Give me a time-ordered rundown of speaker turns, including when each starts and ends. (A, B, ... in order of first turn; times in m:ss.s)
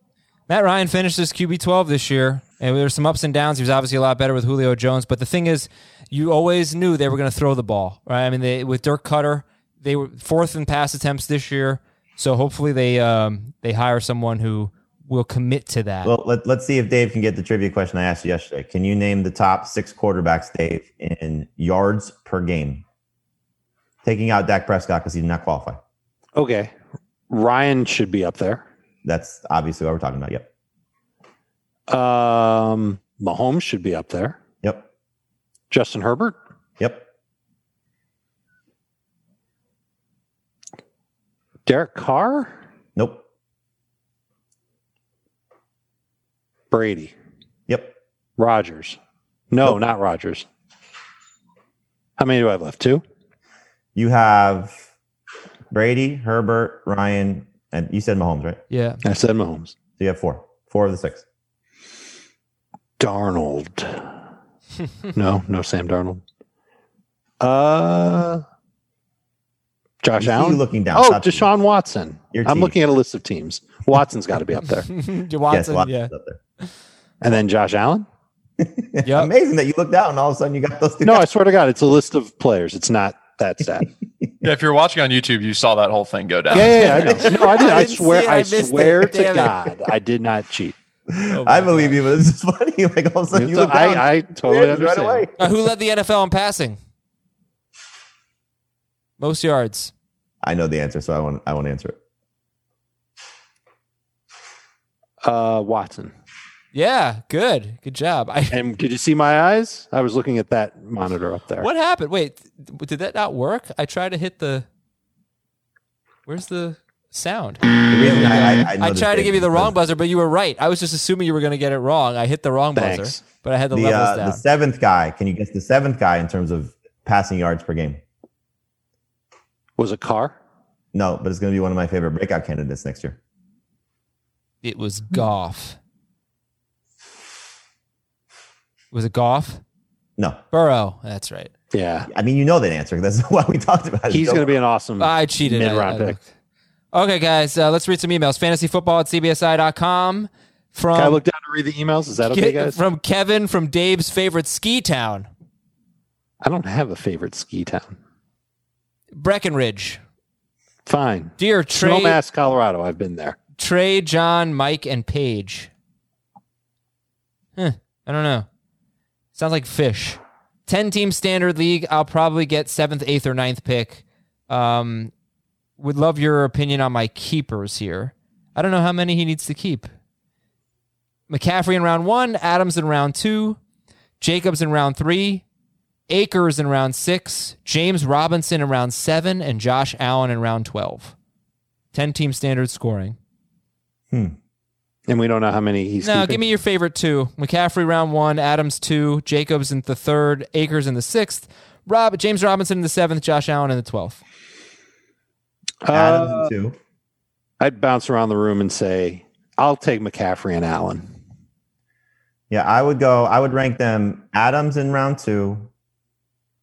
0:00.5-0:16.1 A
0:16.0-0:22.8 B
0:24.0-0:25.8 B
0:26.4-0:26.7 C
0:27.3-0:28.7 C
0:29.0-0:30.5 B
0:31.9-0:34.4 C
0:35.7-0:36.4 C
0:36.8-0:37.0 B
0:41.7-0:42.5 C
0:43.0-0:43.2 B
0:46.7-0:47.1 C
0:47.7-0:48.0 B
0:48.4-0:49.0 C
0:49.5-0:50.5 C
0:52.2-0:53.0 C
0:54.0-0:54.9 B
0:55.7-0:58.6 B
0:58.7-0:59.0 A
0:59.0-0:59.8 C
1:00.0-1:01.2 B
1:03.0-1:04.1 C
1:05.1-1:06.2 C
1:07.4-1:08.4 C
1:10.0-1:14.9 C
1:10.2-1:11.5 B
1:12.3-1:12.8 B
1:14.9-1:16.7 A
1:15.5-1:16.4 B
1:17.2-1:18.1 C
1:18.6-1:21.3 B
1:19.0-1:19.3 A
1:21.0-1:23.9 C
1:24.4-1:27.2 D
1:26.5-1:30.8 C
1:26.6-1:29.6 A
1:31.1-1:35.5 B
1:31.3-1:32.0 A
1:33.3-1:35.3 C
1:35.4-1:36.8 A
1:39.2-1:39.9 A
1:40.4-1:42.0 B
1:45.2-1:46.1 C
1:46.7-1:48.6 A
1:48.5-1:51.7 C
1:51.6-1:54.7 A
1:56.3-2:04.4 A
1:57.9-1:59.8 B
2:02.8-2:03.2 C
2:03.7-2:08.0 B
2:09.8-2:10.4 C
2:10.9-2:13.2 B
2:14.6-2:15.8 A
2:18.9-2:19.6 A
2:20.5-2:21.5 A
2:21.7-2:22.1 C
2:22.1-2:24.5 B
2:24.1-2:26.2 C
2:25.0-2:26.3 A
2:26.9-2:31.2 A
2:30.9-2:32.8 C
2:32.3-2:35.3 A
2:36.4-2:38.0 C
2:39.2-2:40.0 A
2:40.9-2:43.4 C
2:41.4-2:42.2 A
2:43.6-2:45.7 A
2:47.6-2:48.5 A
2:49.4-2:55.1 A
2:55.8-2:59.9 A
3:01.3-3:03.6 A
3:04.2-3:05.4 A
3:06.1-3:11.2 A
3:11.9-3:13.2 A
3:14.1-3:14.4 B
3:15.1-3:16.4 C
3:16.0-3:24.2 A
3:25.8-3:26.5 C
3:25.9-3:26.8 B
3:27.6-3:31.1 C
3:32.5-3:35.7 B